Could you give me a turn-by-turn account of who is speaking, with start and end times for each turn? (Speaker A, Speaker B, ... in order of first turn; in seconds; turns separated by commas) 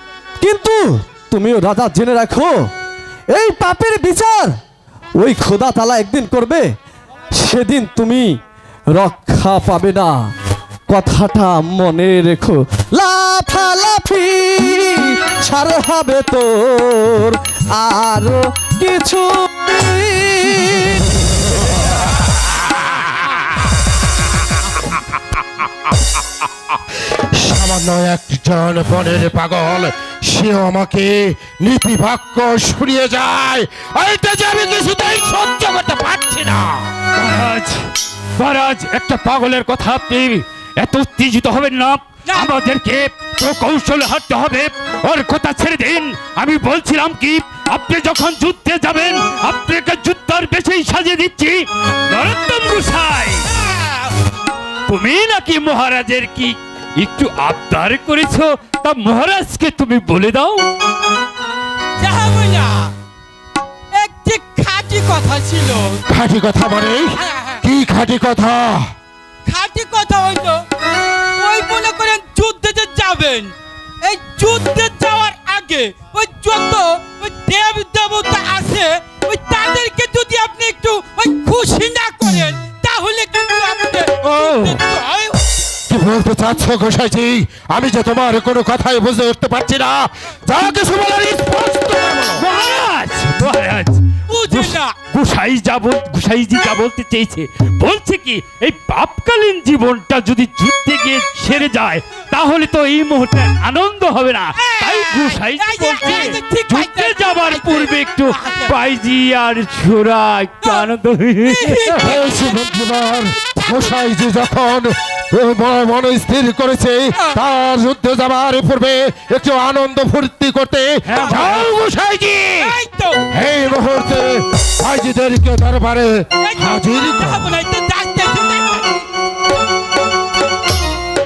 Speaker A: 0.4-2.5, Speaker A: 3.3-4.5, Speaker A: 5.2-6.7, Speaker A: 7.3-8.3, Speaker A: 8.9-10.3, Speaker A: 10.9-21.5, Speaker B: 27.1-36.9, Speaker C: 37.2-53.5, Speaker D: 53.6-54.1, Speaker C: 54.9-60.7, Speaker D: 62.0-62.9, Speaker D: 63.9-66.0, Speaker B: 66.1-68.9, Speaker D: 67.2-67.6, Speaker D: 69.5-70.7, Speaker D: 71.4-85.5, Speaker C: 84.3-84.8, Speaker B: 85.9-92.5, Speaker C: 92.4-112.2, Speaker D: 94.3-95.0, Speaker D: 104.6-108.7, Speaker D: 111.5-112.5, Speaker B: 112.0-122.8, Speaker D: 113.5-114.0, Speaker C: 121.1-121.7, Speaker D: 122.6-123.2, Speaker B: 123.3-127.5, Speaker D: 126.4-129.1